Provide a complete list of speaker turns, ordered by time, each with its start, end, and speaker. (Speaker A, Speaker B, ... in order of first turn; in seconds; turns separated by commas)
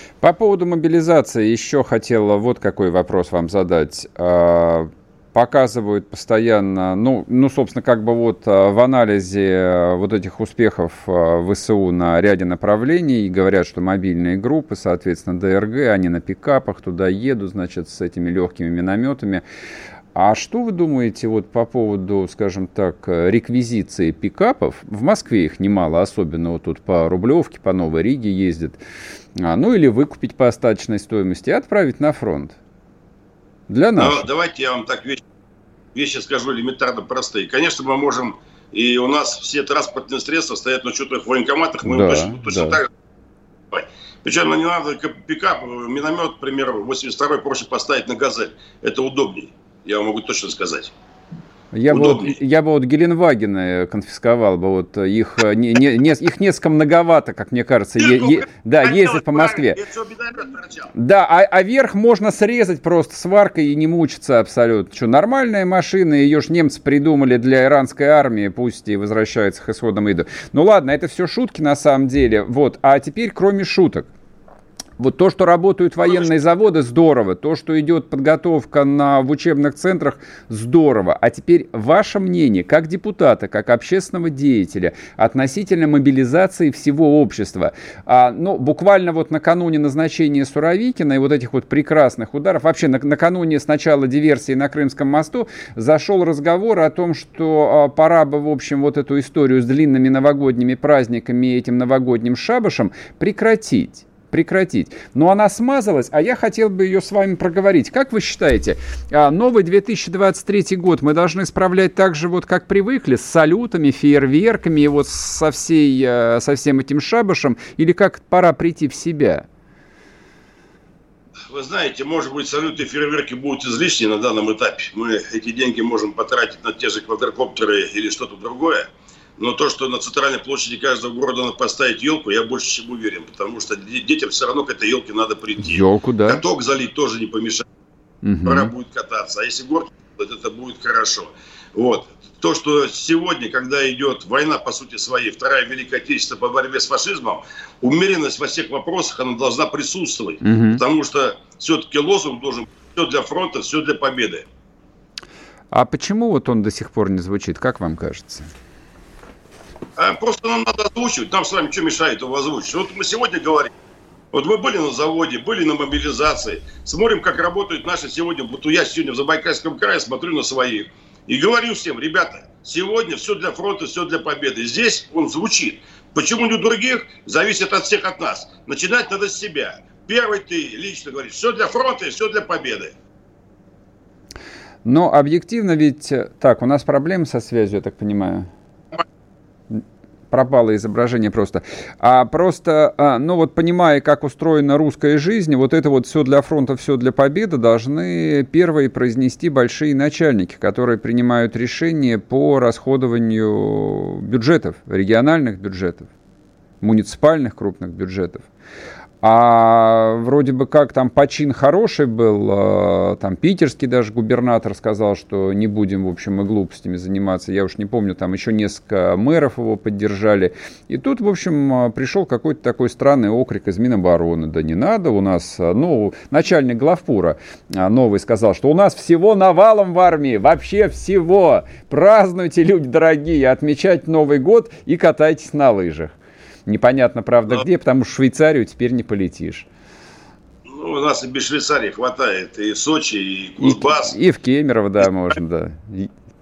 Speaker A: 0.2-19.4, Speaker A: 20.1-28.8, Speaker A: 29.4-32.5, Speaker A: 33.7-34.3, Speaker B: 34.0-35.2, Speaker B: 35.9-42.9, Speaker A: 41.8-42.8, Speaker B: 43.7-50.9, Speaker A: 51.7-59.8, Speaker B: 51.9-52.4, Speaker B: 58.0-60.9, Speaker A: 60.9-74.1, Speaker A: 75.0-119.5, Speaker B: 121.5-137.7, Speaker A: 135.6-136.4, Speaker A: 138.2-138.7, Speaker B: 138.4-154.4, Speaker A: 150.4-150.8, Speaker A: 155.7-158.5, Speaker B: 159.9-163.7, Speaker B: 164.3-182.9, Speaker A: 184.8-188.5, Speaker A: 189.7-206.1, Speaker A: 206.8-208.5, Speaker A: 209.2-236.1, Speaker A: 236.7-239.7, Speaker B: 240.7-244.2, Speaker A: 243.6-246.1